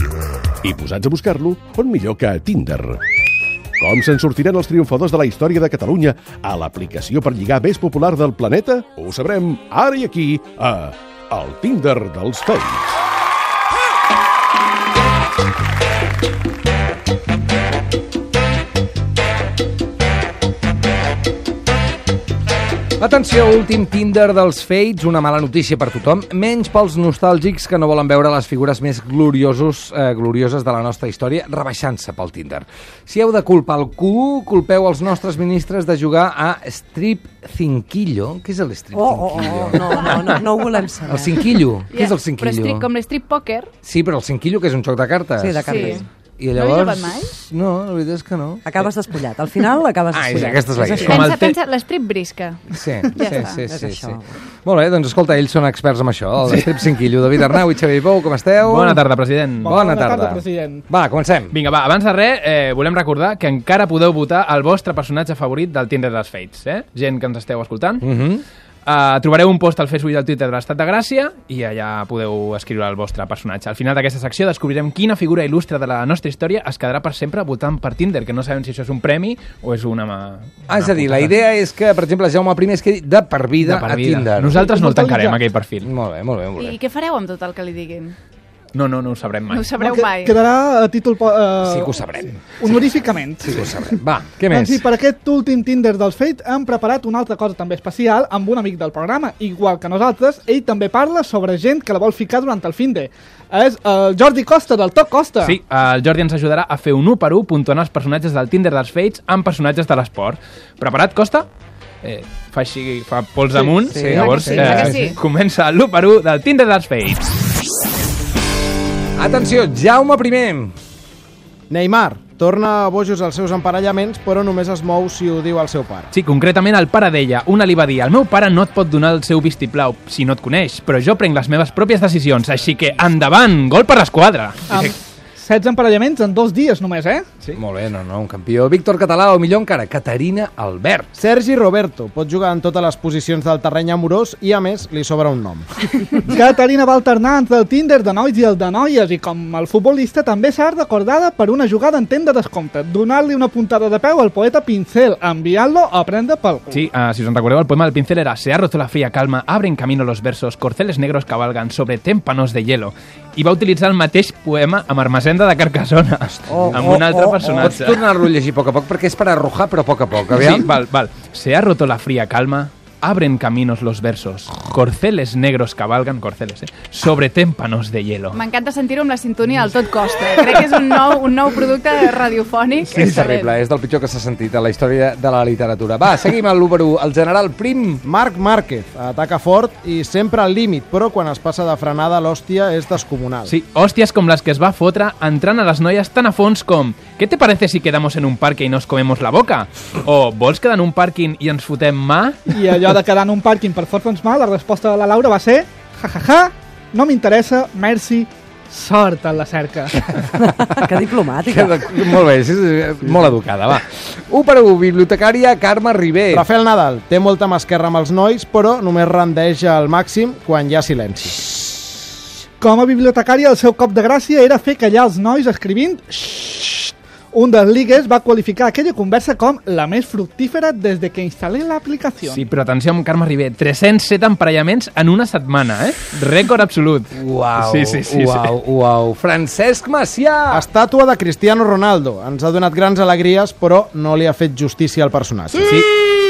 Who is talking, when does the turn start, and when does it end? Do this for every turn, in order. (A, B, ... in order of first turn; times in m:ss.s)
0:00.6-0:03.0 A
0:03.8-0:13.0 A
0:23.0-0:40.4 B
0:38.9-0:41.6 C
0:41.1-0:42.9 B
0:41.9-0:43.7 D
0:43.8-0:48.7 B
0:45.4-0:46.0 C
0:45.6-0:47.3 D
0:48.6-0:51.2 C
0:50.1-0:51.2 B
0:50.8-0:51.5 E
0:51.0-0:53.6 D
0:52.7-0:59.0 B
0:53.2-0:54.4 C
0:58.6-0:59.8 E
0:59.6-1:00.9 F
0:59.7-1:01.6 B
1:01.5-1:08.0 E
1:08.0-1:08.4 B
1:08.8-1:21.4 E
1:20.7-1:24.6 B
1:23.6-1:25.9 E
1:24.5-1:25.4 F
1:25.8-1:26.8 B
1:26.6-1:28.1 D
1:28.7-1:29.7 E
1:29.5-1:30.4 D
1:29.8-1:33.7 F
1:31.6-1:32.8 B
1:33.4-1:34.8 B
1:34.5-1:45.6 F
1:45.4-1:51.5 E
1:52.0-1:57.4 E
1:53.8-1:54.8 C
1:53.9-1:55.2 B
1:54.1-1:55.2 D
1:59.2-2:00.7 B
2:01.7-2:06.1 G
2:06.1-2:15.0 E
2:14.7-2:17.2 F
2:17.5-2:21.1 B
2:21.2-2:25.9 G
2:26.2-2:36.9 F
2:36.7-2:48.0 E
2:46.5-2:47.5 C
2:47.6-2:50.7 B
2:50.3-2:58.4 E
2:58.3-3:03.5 D
3:02.8-3:08.0 B
3:08.0-3:13.5 G
3:13.4-3:22.4 E
3:22.5-3:30.0 F
3:30.5-3:32.2 C
3:31.5-3:36.4 B
3:36.3-3:41.5 G
3:42.6-3:52.4 F
3:52.2-3:58.5 E
3:57.1-4:00.6 B
4:00.5-4:05.9 G
4:05.6-4:05.9 E